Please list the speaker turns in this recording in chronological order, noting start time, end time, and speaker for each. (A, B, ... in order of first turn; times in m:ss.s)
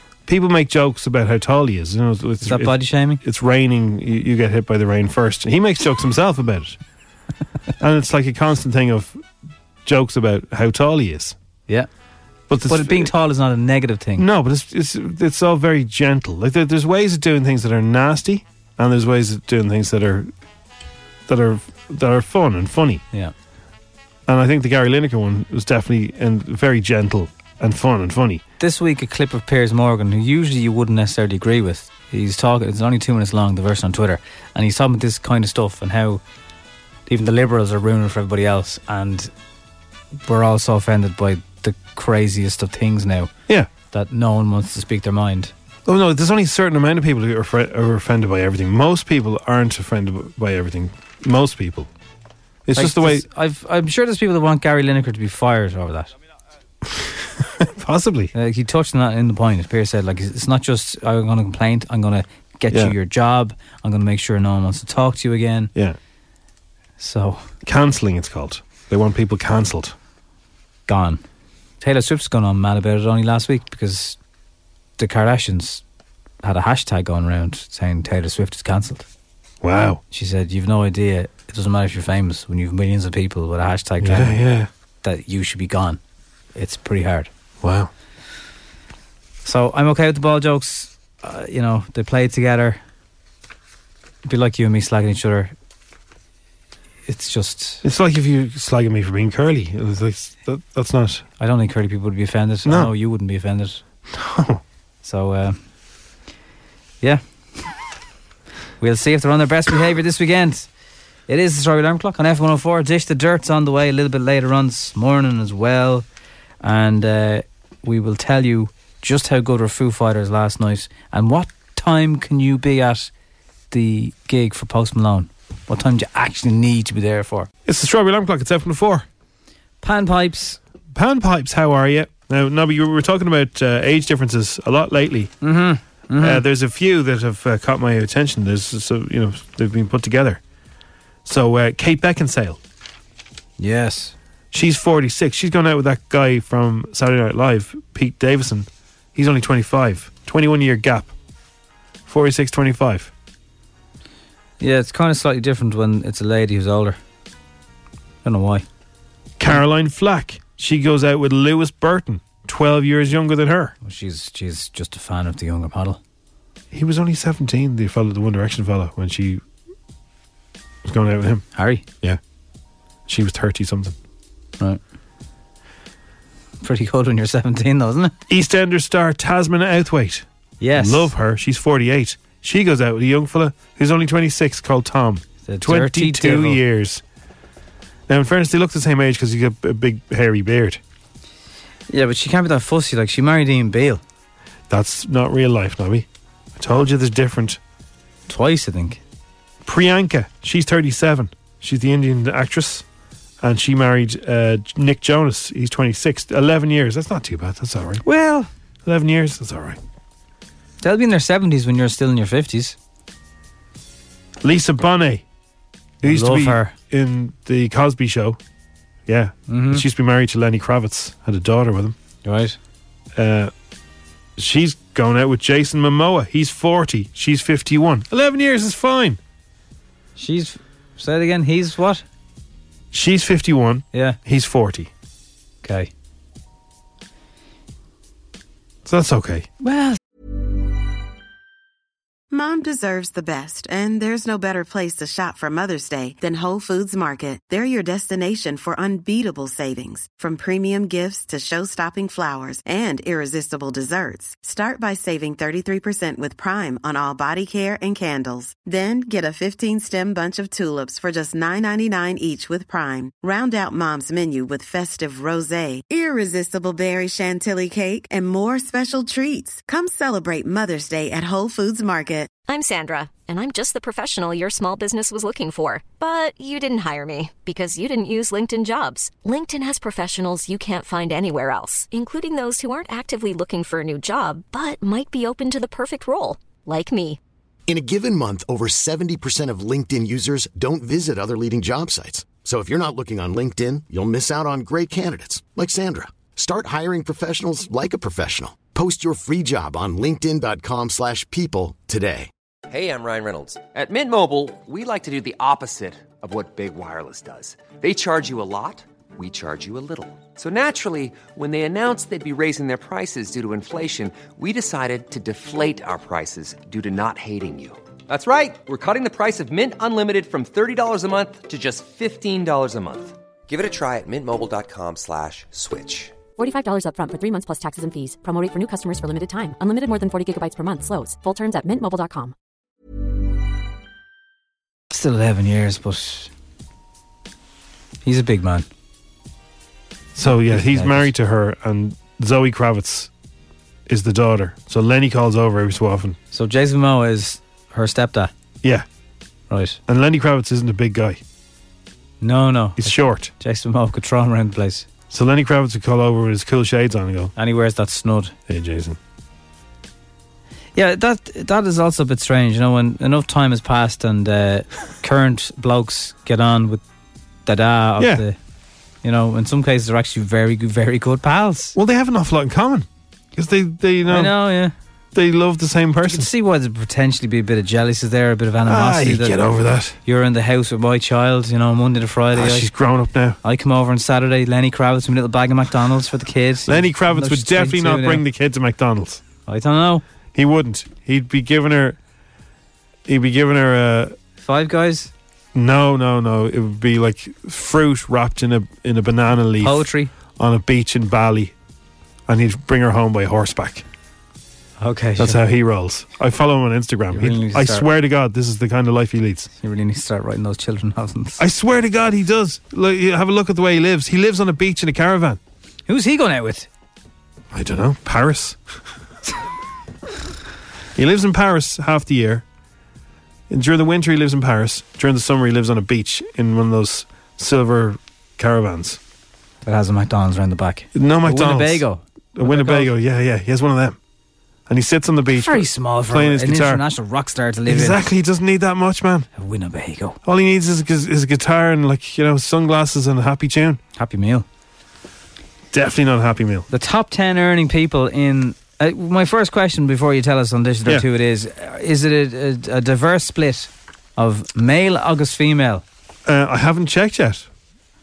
0:00.3-0:06.8 A
0:02.4-0:03.2 B
0:07.8-0:09.2 A
0:09.8-0:11.3 A
0:12.5-0:13.1 A
0:12.6-0:14.2 B
0:14.2-0:20.3 A
0:21.3-0:23.0 A
0:24.3-0:28.4 A
0:28.6-0:36.2 B
0:37.1-0:39.3 B
0:40.2-0:43.3 B
0:43.9-0:45.5 B
0:45.8-0:51.9 A
0:52.6-0:53.2 A
0:52.8-0:56.1 B
0:56.9-0:58.3 A
0:58.3-1:05.7 B
1:07.0-1:07.5 B
1:07.6-1:09.9 A
1:10.9-1:11.2 B
1:11.8-1:14.2 B
1:15.0-1:15.8 B
1:16.4-1:19.0 B
1:19.6-1:20.0 A
1:20.1-1:24.4 B
1:24.0-1:24.7 A
1:25.0-1:26.0 B
1:26.5-1:27.3 B
1:27.6-1:27.9 A
1:29.4-1:32.8 B
1:34.2-1:35.5 B
1:37.1-1:37.8 B
1:37.8-1:41.2 A
1:41.4-1:43.8 B
1:44.1-1:44.6 A
1:45.0-1:45.6 B
1:47.0-1:47.6 B
1:48.8-1:50.7 B
1:51.3-1:56.0 B
1:56.6-2:03.1 B
2:03.7-2:07.5 B
2:07.6-2:09.0 A
2:09.8-2:10.6 B
2:10.9-2:15.3 A
2:15.4-2:16.4 B
2:16.2-2:20.4 A
2:21.2-2:22.6 A
2:23.6-2:24.1 B
2:24.5-2:31.1 A
2:32.1-2:33.1 A
2:34.6-2:37.0 B
2:38.2-2:38.6 B
2:39.4-2:43.7 A
2:43.8-2:46.0 B
2:46.7-2:49.4 A
2:50.8-2:51.4 A
2:51.5-2:51.8 B
2:53.1-2:53.9 A
2:56.6-2:58.1 B
2:58.3-3:07.0 A
3:00.6-3:01.1 B
3:05.4-3:06.6 B
3:08.1-3:10.8 A
3:11.9-3:14.0 B
3:14.7-3:16.0 A
3:16.6-3:17.6 A
3:18.3-3:19.0 B
3:19.6-3:22.8 A
3:23.4-3:28.0 A
3:28.0-3:28.5 B
3:28.8-3:29.8 A
3:30.8-3:32.8 B
3:34.4-3:35.2 A
3:36.0-3:38.4 A
3:36.0-3:36.7 B
3:39.1-3:41.9 A
3:39.5-3:39.8 B
3:42.2-3:42.6 B
3:43.2-3:43.5 A
3:44.4-3:49.2 A
3:50.2-3:52.0 B
3:52.9-3:54.9 A
3:53.9-3:54.2 B
3:55.6-3:55.9 B
3:58.8-3:59.5 A
3:59.6-4:00.0 B
4:02.3-4:32.3 C
4:32.5-4:47.2 D
4:47.7-5:02.3 E
5:02.7-5:26.2 F
5:26.4-5:32.3 G
5:34.9-5:36.3 B
5:38.0-5:38.7 B
5:40.1-5:43.1 A
5:40.3-5:41.1 B
5:43.9-5:46.2 A
5:46.3-5:48.3 B
5:49.5-5:49.8 B
5:49.9-5:51.2 A
5:52.2-5:54.9 B
5:52.8-5:53.3 A
5:55.1-5:57.3 A
5:57.4-5:58.3 B
5:58.5-5:59.0 A
6:00.7-6:06.8 B
6:07.4-6:08.3 B
6:08.0-6:08.2 A
6:09.0-6:11.7 B
6:11.7-6:14.3 A
6:14.1-6:14.7 B
6:15.1-6:16.3 A
6:16.0-6:19.5 B
6:18.6-6:20.0 A
6:20.0-6:22.7 B
6:22.3-6:23.4 A
6:23.4-6:28.2 B
6:26.7-6:29.2 A
6:29.4-6:30.0 B
6:30.3-6:32.0 A
6:33.0-6:34.1 A
6:34.4-6:35.1 B
6:35.5-6:41.5 A
6:39.6-6:40.1 B
6:42.3-6:43.8 A
6:44.8-6:45.4 B
6:45.2-6:49.5 A
6:47.1-6:47.9 B
6:49.6-6:51.4 B
6:51.4-6:55.4 A
6:55.9-6:56.7 B
6:57.5-6:58.6 A
7:01.0-7:02.4 A
7:03.5-7:09.0 A
7:09.6-7:12.9 B
7:10.9-7:11.8 A
7:12.4-7:14.0 A
7:14.7-7:16.8 A
7:15.3-7:18.1 B
7:17.7-7:19.3 A
7:19.4-7:20.2 B
7:20.2-7:23.8 A
7:23.9-7:24.4 B
7:25.7-7:26.6 A
7:26.7-7:35.8 B
7:36.2-7:37.5 A